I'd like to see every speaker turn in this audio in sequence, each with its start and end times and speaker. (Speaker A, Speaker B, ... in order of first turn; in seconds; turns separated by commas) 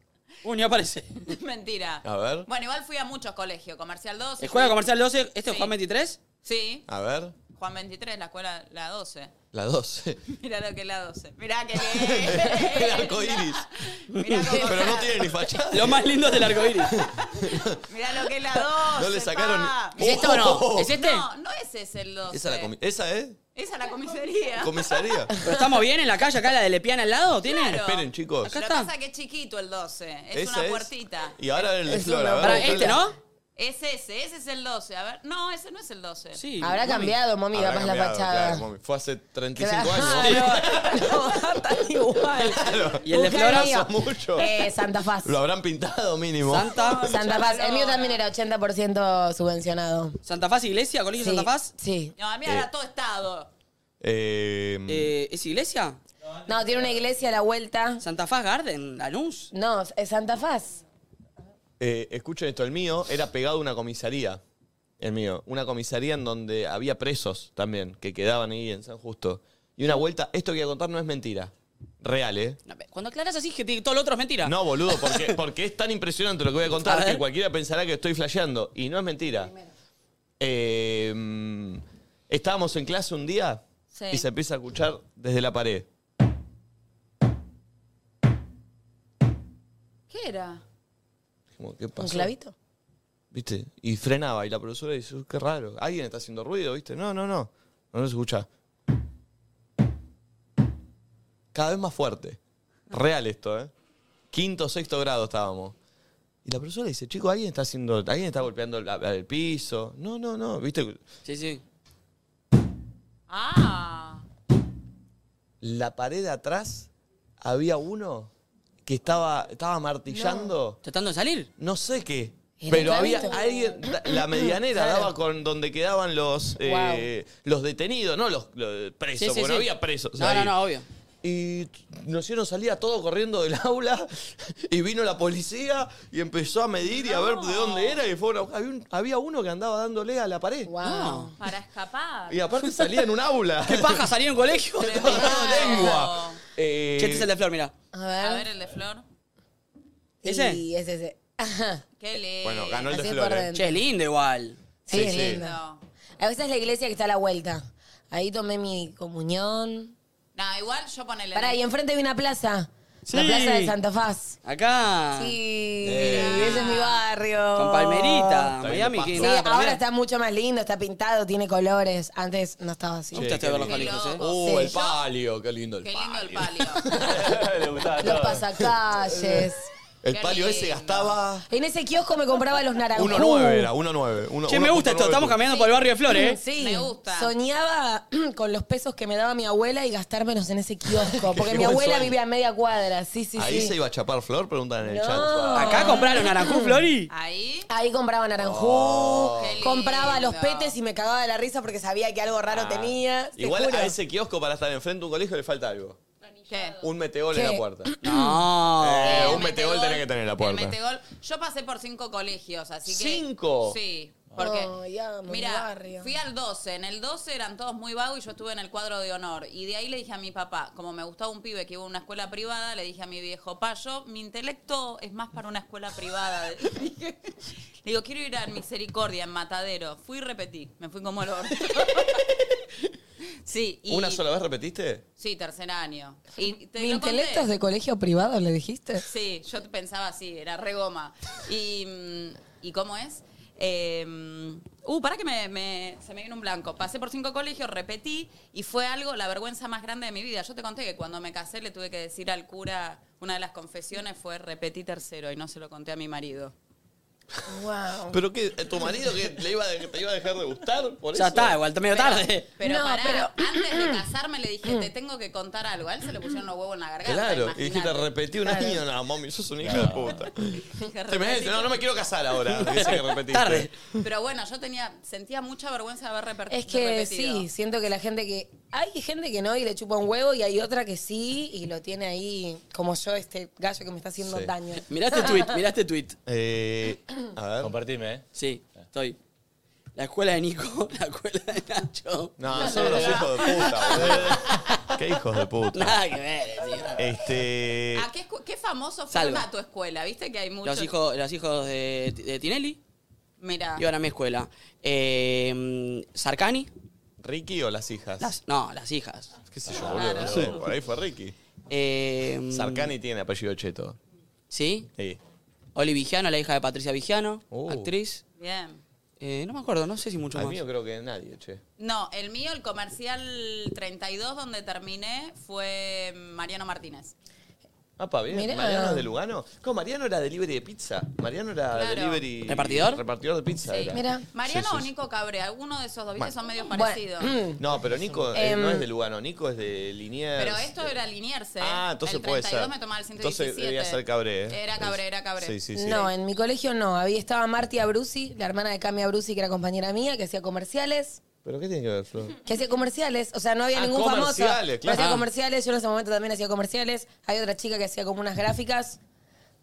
Speaker A: 0.4-1.3, Speaker B: 1.3-4.8, Speaker C: 2.0-2.5, Speaker A: 4.4-6.2, Speaker B: 5.5-5.7, Speaker B: 6.4-6.9, Speaker C: 6.9-7.3, Speaker B: 7.5-9.3, Speaker C: 9.5-10.2, Speaker B: 10.3-15.4, Speaker C: 11.8-13.7, Speaker A: 14.1-14.5, Speaker C: 14.5-17.8, Speaker D: 14.5-14.9, Speaker A: 15.7-17.0, Speaker B: 17.2-20.0, Speaker C: 18.8-20.9, Speaker A: 20.0-21.2, Speaker B: 20.8-22.7, Speaker C: 22.3-23.4, Speaker B: 23.6-25.2, Speaker C: 24.6-25.3, Speaker A: 25.4-27.8, Speaker B: 27.4-31.7, Speaker C: 27.8-28.6, Speaker A: 28.5-28.9, Speaker C: 30.3-33.0, Speaker D: 31.9-33.0, Speaker A: 32.4-33.1, Speaker B: 33.6-36.4, Speaker A: 36.4-37.1, Speaker D: 36.6-38.6, Speaker C: 37.5-41.2, Speaker D: 39.6-45.4, Speaker A: 40.2-40.6, Speaker C: 42.4-44.5, Speaker A: 43.0-43.8, Speaker B: 44.4-44.8, Speaker C: 45.2-47.1, Speaker A: 46.5-47.1, Speaker B: 47.0-48.2, Speaker D: 47.0-50.2, Speaker A: 50.2-51.7, Speaker D: 51.2-52.1, Speaker B: 52.2-53.5, Speaker C: 54.0-55.1, Speaker A: 54.9-56.0, Speaker D: 56.5-58.0, Speaker A: 58.0-59.5, Speaker D: 59.5-60.8, Speaker C: 61.8-64.4, Speaker C: 65.0-72.6, Speaker A: 72.7-75.4, Speaker C: 74.4-79.5, Speaker A: 76.7-77.2, Speaker C: 80.4-85.9, Speaker B: 83.9-84.2, Speaker B: 90.1-90.6, Speaker C: 91.6-92.3, Speaker D: 92.0-92.5, Speaker C: 93.3-98.5, Speaker C: 101.5-102.4, Speaker C: 102.9-103.7, Speaker C: 104.3-105.8, Speaker C: 106.5-111.0, Speaker A: 111.2-111.6, Speaker B: 113.3-114.2, Speaker C: 115.6-116.9, Speaker C: 117.4-118.3, Speaker C: 118.8-120.8, Speaker D: 120.1-120.5, Speaker A: 120.8-121.5, Speaker C: 121.6-130.6, Speaker D: 122.6-125.1, Speaker D: 126.6-127.1, Speaker A: 129.2-130.9, Speaker C: 131.2-140.7, Speaker B: 137.0-138.0, Speaker D: 140.7-141.4, Speaker A: 140.8-141.3, Speaker B: 141.4-142.4, Speaker C: 142.3-144.1, Speaker A: 143.7-145.9, Speaker B: 144.8-146.4, Speaker C: 145.0-147.3, Speaker A: 147.0-147.7, Speaker D: 147.9-148.5, Speaker B: 148.2-149.1, Speaker D: 150.2-151.8, Speaker A: 150.2-150.6, Speaker B: 152.0-152.9, Speaker C: 152.4-153.5, Speaker D: 152.9-153.8, Speaker A: 153.5-154.6, Speaker D: 154.9-155.6, Speaker C: 154.9-155.4, Speaker B: 154.9-155.8, Speaker D: 156.2-159.9, Speaker B: 160.4-161.6, Speaker D: 161.3-164.4, Speaker A: 163.1-163.8, Speaker A: 164.4-165.4, Speaker D: 165.2-168.5, Speaker C: 165.8-166.7, Speaker B: 165.9-167.0, Speaker A: 167.6-169.8, Speaker C: 168.6-169.3, Speaker D: 169.2-173.3, Speaker A: 173.1-174.2, Speaker C: 173.1-177.5, Speaker B: 173.6-175.0, Speaker D: 174.4-174.8, Speaker B: 175.8-177.0, Speaker E: 177.1-178.4, Speaker D: 178.0-179.7, Speaker C: 178.0-178.3, Speaker C: 179.2-179.4, Speaker C: 180.0-181.5, Speaker B: 180.1-181.2, Speaker D: 181.5-183.7, Speaker C: 182.9-185.4, Speaker A: 184.5-186.4, Speaker B: 185.5-185.8, Speaker D: 186.1-193.8, Speaker B: 186.6-187.3, Speaker C: 191.2-192.1, Speaker C: 193.4-196.0, Speaker D: 194.8-196.8, Speaker A: 195.5-197.1, Speaker B: 195.7-196.0, Speaker B: 197.1-197.7, Speaker D: 197.7-203.9, Speaker C: 198.4-199.6, Speaker B: 199.4-200.8, Speaker C: 202.5-206.0, Speaker B: 206.5-206.8, Speaker C: 206.8-207.9, Speaker D: 207.3-208.4, Speaker A: 208.0-209.4, Speaker C: 208.8-210.8, Speaker B: 209.0-214.7, Speaker C: 212.9-213.8, Speaker D: 214.4-216.1, Speaker B: 215.2-232.3, Speaker B: 233.4-234.2, Speaker C: 233.9-235.0, Speaker B: 235.2-237.5, Speaker D: 236.8-239.1, Speaker B: 239.1-256.5, Speaker D: 257.5-258.2, Speaker C: 258.1-261.6, Speaker A: 261.1-262.5, Speaker B: 261.9-268.1, Speaker D: 262.6-263.9, Speaker C: 267.0-273.9, Speaker D: 268.5-268.8, Speaker E: 269.6-270.1, Speaker B: 270.7-271.8, Speaker A: 272.5-273.7, Speaker B: 274.0-277.5, Speaker D: 276.5-285.5, Speaker C: 284.2-284.5, Speaker A: 284.8-286.2, Speaker C: 286.2-287.7, Speaker E: 287.6-288.2, Speaker A: 288.3-289.2, Speaker A: 290.0-294.7, Speaker C: 292.4-296.0, Speaker A: 295.7-297.0, Speaker C: 297.0-298.1, Speaker B: 297.9-300.9, Speaker A: 299.1-299.4, Speaker A: 300.6-302.8, Speaker B: 303.4-303.8, Speaker A: 303.8-306.7, Speaker C: 307.2-308.3, Speaker A: 308.2-309.3, Speaker C: 309.5-311.4, Speaker E: 309.7-310.6, Speaker B: 309.8-310.6, Speaker A: 311.7-312.9, Speaker C: 312.5-314.0, Speaker A: 314.5-314.9, Speaker A: 315.8-318.2, Speaker C: 317.5-317.9, Speaker B: 318.4-318.8, Speaker A: 319.2-320.6, Speaker C: 320.3-321.6, Speaker B: 321.8-327.1, Speaker C: 328.0-334.9, Speaker D: 328.3-329.1, Speaker B: 331.7-332.2, Speaker A: 332.5-333.0, Speaker B: 333.7-337.4, Speaker D: 333.9-334.2, Speaker D: 336.7-337.6, Speaker C: 337.6-340.9, Speaker D: 338.3-338.9, Speaker B: 340.4-345.6, Speaker C: 341.6-346.1, Speaker D: 345.8-351.2, Speaker C: 351.4-352.4, Speaker D: 352.4-359.0, Speaker C: 353.7-355.1, Speaker A: 354.9-355.2